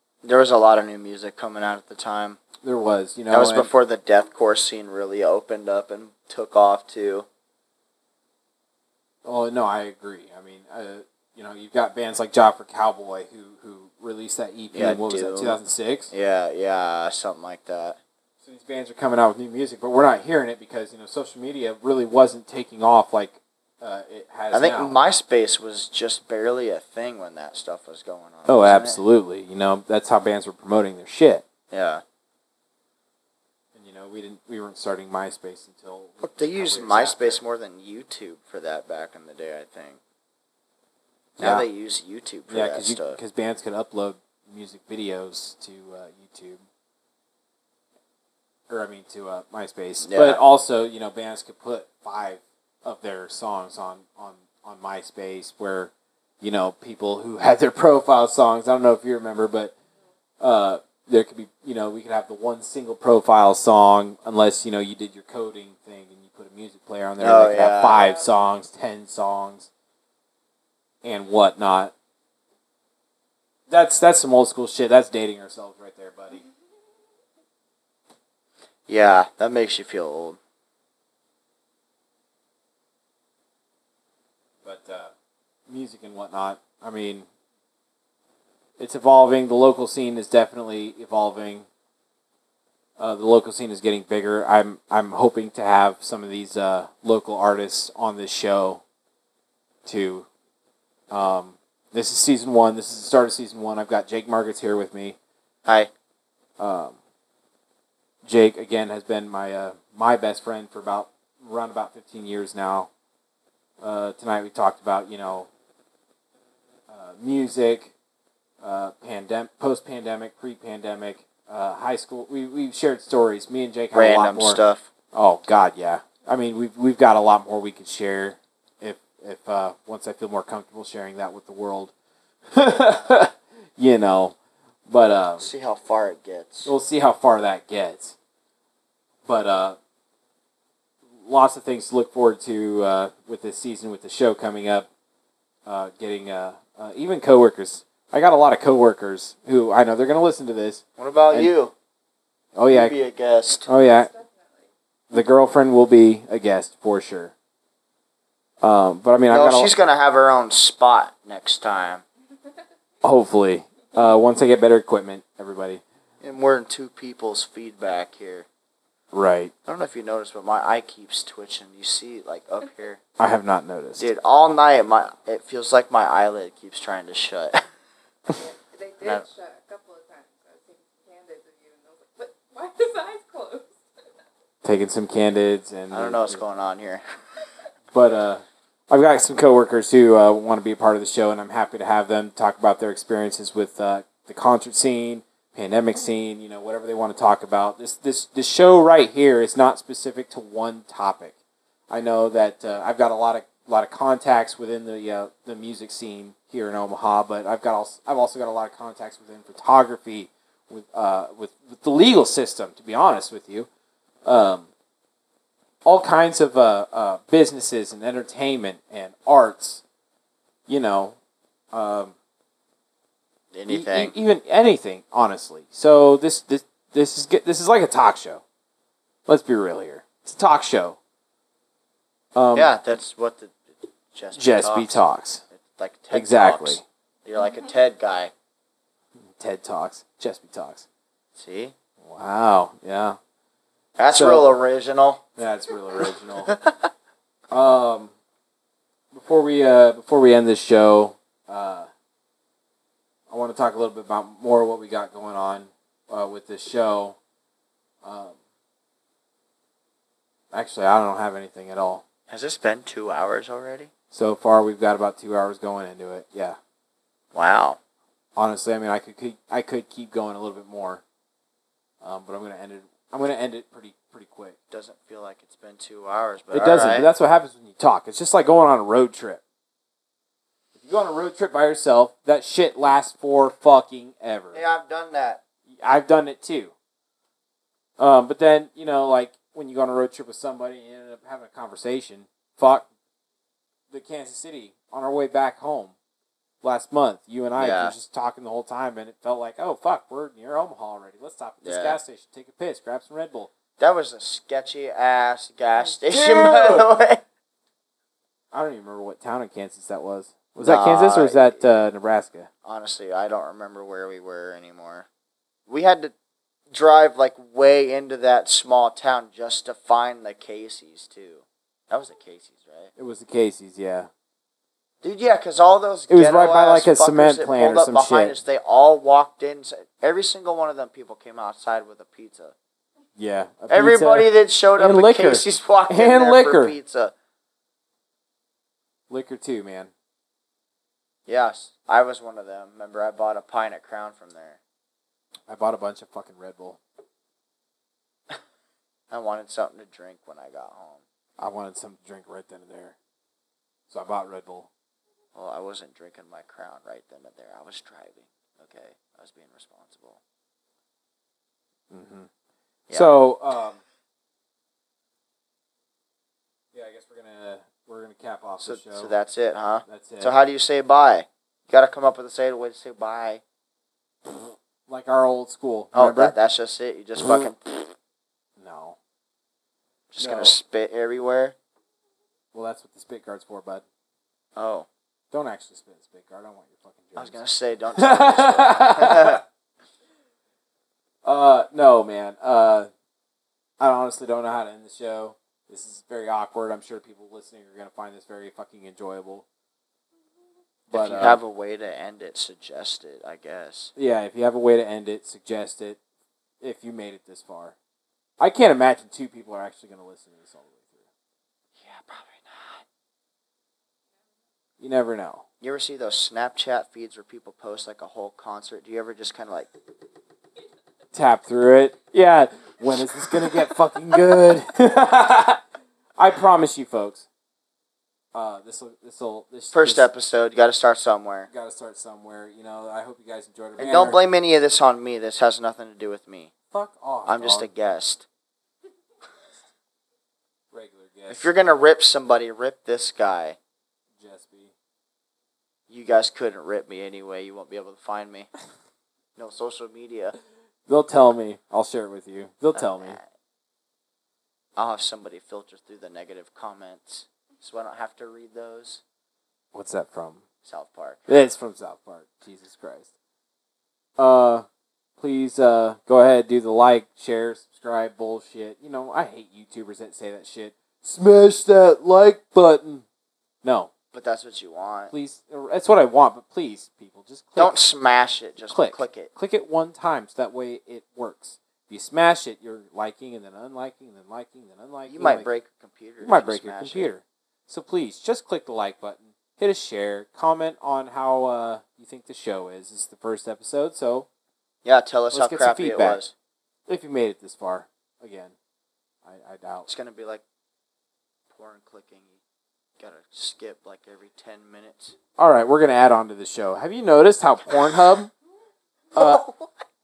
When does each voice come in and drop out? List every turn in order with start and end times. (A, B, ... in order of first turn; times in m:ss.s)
0:00.2-0:02.4 A
0:02.6-0:03.7 B
0:03.3-0:07.2 A
0:09.2-0:16.1 B
0:14.7-0:15.6 A
0:16.1-0:18.0 A
0:18.4-0:25.0 B
0:24.5-0:29.0 A
0:28.4-0:31.4 B
0:31.7-0:32.0 A
0:33.7-0:37.4 B
0:36.2-0:40.0 A
0:41.4-0:41.7 B
0:41.4-0:43.2 A
0:42.5-0:46.6 B
0:48.7-0:59.7 B
0:50.0-0:50.4 A
1:00.4-1:09.7 B
1:07.2-1:08.1 A
1:11.0-1:11.9 B
1:13.7-1:16.4 B
1:18.9-1:20.4 A
1:24.6-1:25.1 B
1:25.7-1:27.3 B
1:28.8-1:31.7 B
1:33.0-1:38.8 B
1:39.8-1:40.3 B
1:41.1-1:45.2 B
1:45.6-1:45.9 A
1:46.6-1:47.0 B
1:48.2-1:52.9 B
1:53.8-1:55.5 B
1:56.9-1:57.9 B
1:58.6-2:04.6 B
2:03.9-2:04.9 A
2:05.1-2:11.9 B
2:12.5-2:14.4 B
2:14.9-2:15.5 B
2:15.4-2:16.7 A
2:16.6-2:18.1 B
2:19.2-2:19.8 B
2:21.2-2:24.9 B
2:25.6-2:31.5 B
2:31.0-2:31.7 A
2:32.5-2:33.0 B
2:32.7-2:33.7 A
2:33.6-2:34.7 C
2:33.7-2:34.1 B
2:35.1-2:37.3 B
2:38.6-2:39.7 B
2:39.3-2:42.0 A
2:43.0-2:45.8 B
2:46.2-2:48.4 A
2:49.1-2:49.5 B
2:49.6-2:53.0 A
2:53.2-2:54.1 B
2:54.0-2:57.6 A
2:58.3-3:03.8 C
3:04.6-3:06.4 B
3:05.9-3:07.0 A
3:07.9-3:21.3 B
3:21.9-3:33.7 B
3:34.2-3:34.7 B
3:35.8-3:39.8 B
3:40.7-3:41.2 B
3:41.7-3:42.1 B
3:43.5-3:44.1 A
3:43.7-3:48.4 B
3:49.3-3:51.0 B
3:52.4-3:52.7 B
3:52.5-3:58.3 A
3:54.3-3:55.4 B
3:56.1-3:56.8 B
3:59.4-4:00.8 B
4:01.3-4:01.7 A
4:02.0-4:03.2 B
4:04.0-4:05.2 A
4:04.1-4:04.5 B
4:05.4-4:06.5 B
4:06.0-4:06.9 A
4:07.5-4:08.1 B
4:09.1-4:11.9 B
4:13.3-4:17.2 B
4:18.0-4:18.4 B
4:20.5-4:22.0 B
4:22.3-4:23.9 A
4:24.1-4:26.6 B
4:27.3-4:27.8 A
4:28.4-4:31.0 B
4:32.0-4:34.5 B
4:34.7-4:37.1 A
4:36.5-4:39.4 B
4:40.7-4:44.6 B
4:44.5-4:45.4 A
4:45.8-4:46.7 B
4:48.0-4:52.9 B
4:53.9-4:55.9 B
4:56.6-5:03.5 B
4:57.6-4:57.9 A
5:01.6-5:02.0 A
5:03.8-5:07.2 A
5:06.1-5:06.9 B
5:08.5-5:12.5 B
5:10.6-5:11.6 A
5:12.6-5:15.1 A
5:15.7-5:16.1 A
5:16.7-5:22.9 A
5:23.0-5:24.1 B
5:25.0-5:32.5 A
5:26.1-5:28.3 B
5:33.2-5:36.8 B
5:33.7-5:37.1 A
5:39.1-5:39.9 B
5:41.3-5:44.6 A
5:45.5-5:46.8 B
5:49.1-5:51.0 A
5:51.4-5:53.0 B
5:53.9-5:54.7 B
5:55.3-6:00.2 A
6:01.9-6:02.3 B
6:02.9-6:03.8 B
6:06.7-6:09.1 B
6:08.6-6:13.4 A
6:09.8-6:10.3 B
6:14.9-6:16.3 B
6:15.9-6:17.9 A
6:18.6-6:19.0 B
6:20.1-6:21.6 A
6:20.2-6:20.6 B
6:22.5-6:23.8 B
6:24.6-6:24.9 A
6:25.3-6:27.4 B
6:27.2-6:29.4 A
6:28.0-6:29.4 B
6:31.2-6:32.9 B
6:33.8-6:39.4 B
6:40.9-6:41.4 B
6:40.9-6:43.9 A
6:44.0-6:46.0 B
6:46.6-6:47.8 B
6:48.4-6:51.0 B
6:51.8-6:52.8 A
6:54.8-6:55.4 B
6:55.6-6:59.7 A
7:01.1-7:05.6 B
7:06.2-7:07.3 B
7:08.3-7:10.1 B
7:09.7-7:11.5 A
7:11.5-7:14.2 B
7:13.8-7:16.5 A
7:16.7-7:17.7 B
7:17.2-7:18.2 A
7:20.7-7:21.5 B
7:21.3-7:23.6 A
7:24.2-7:24.7 B
7:25.9-7:28.5 A
7:29.4-7:30.4 A
7:30.9-7:33.2 B
7:32.7-7:33.3 A
7:34.8-7:39.0 A
7:39.7-7:40.4 B
7:40.6-7:41.3 A
7:41.3-7:43.1 B
7:44.2-7:44.6 B
7:45.2-7:53.0 B
7:53.6-7:53.9 B
7:54.1-7:55.1 A
7:55.1-7:57.7 B
7:57.6-7:59.3 A
7:58.7-8:05.5 B
8:05.1-8:07.1 A
8:06.2-8:14.3 B
8:14.8-8:16.3 A
8:15.3-8:16.2 B
8:16.9-8:18.5 B
8:19.2-8:19.9 B
8:19.9-8:20.4 A
8:21.5-8:22.4 A
8:23.0-8:25.2 A
8:25.4-8:28.3 B
8:29.1-8:29.4 B
8:29.2-8:29.6 A